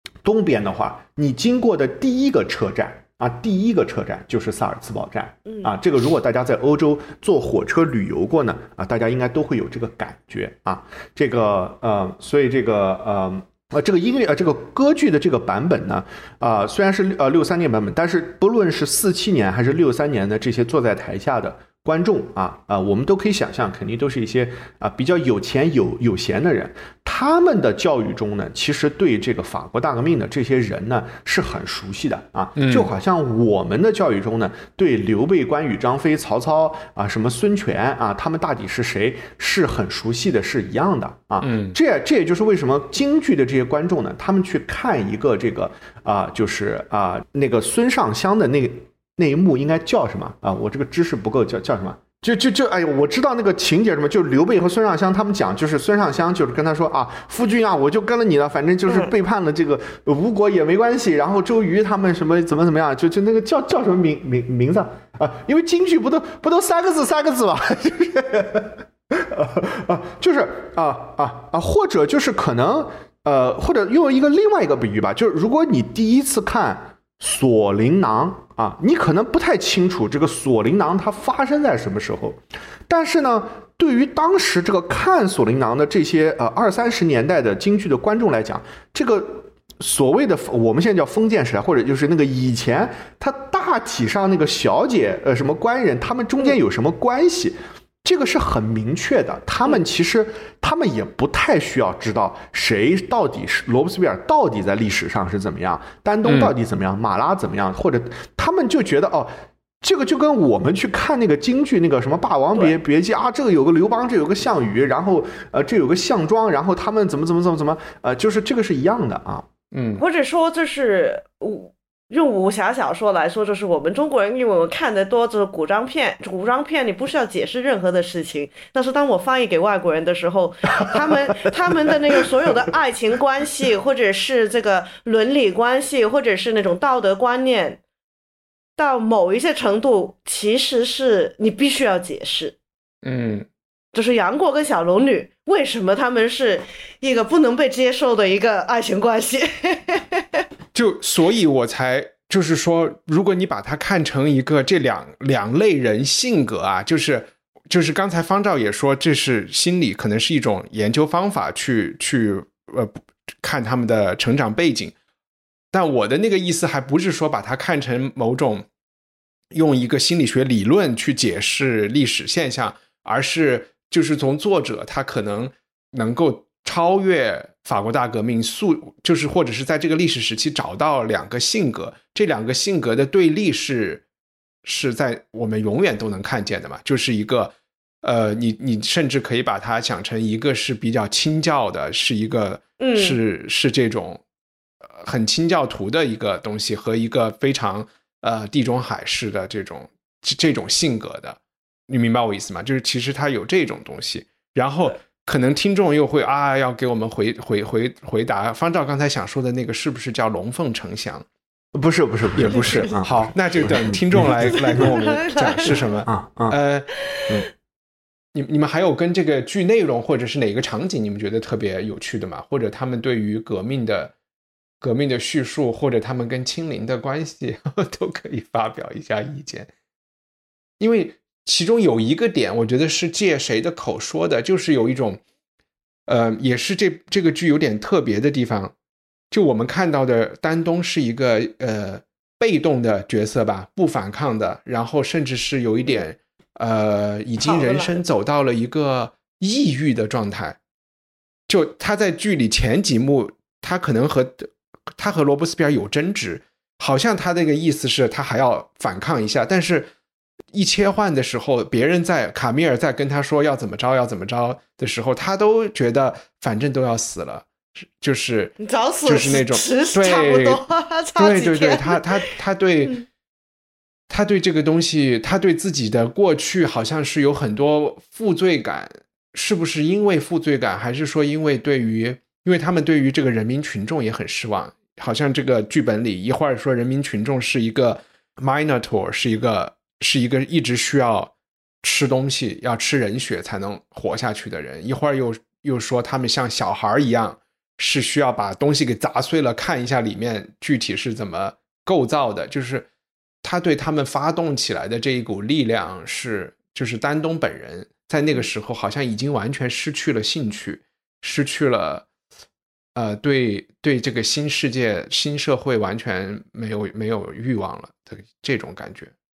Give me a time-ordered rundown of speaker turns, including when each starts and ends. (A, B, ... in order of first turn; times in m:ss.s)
0:00.2-1:59.5 A
0:32.6-0:32.9 B
0:41.4-0:41.8 B
0:58.9-0:59.1 C
1:46.2-1:46.5 B
1:59.7-2:00.0 B
2:00.0-2:17.8 C
2:18.8-2:22.6 C
2:23.0-2:23.5 B
2:23.9-2:30.4 C
2:30.7-2:44.9 B
2:45.7-2:48.7 B
2:49.5-3:04.0 B
3:04.6-3:14.2 B
3:12.8-3:13.2 C
3:14.8-3:31.2 B
3:31.7-3:36.6 A
3:32.4-3:36.9 B
3:32.5-3:33.0 C
3:34.4-3:35.7 C
3:38.3-3:44.1 B
3:44.8-3:49.7 B
3:50.8-3:55.2 B
3:56.1-3:58.7 B
3:59.3-4:10.6 B
4:07.4-4:08.0 C
4:11.5-4:19.9 B
4:20.5-4:30.6 B
4:28.6-4:32.3 C
4:31.2-4:33.0 B
4:34.1-5:02.9 B
5:03.4-5:12.1 B
5:13.0-5:19.1 B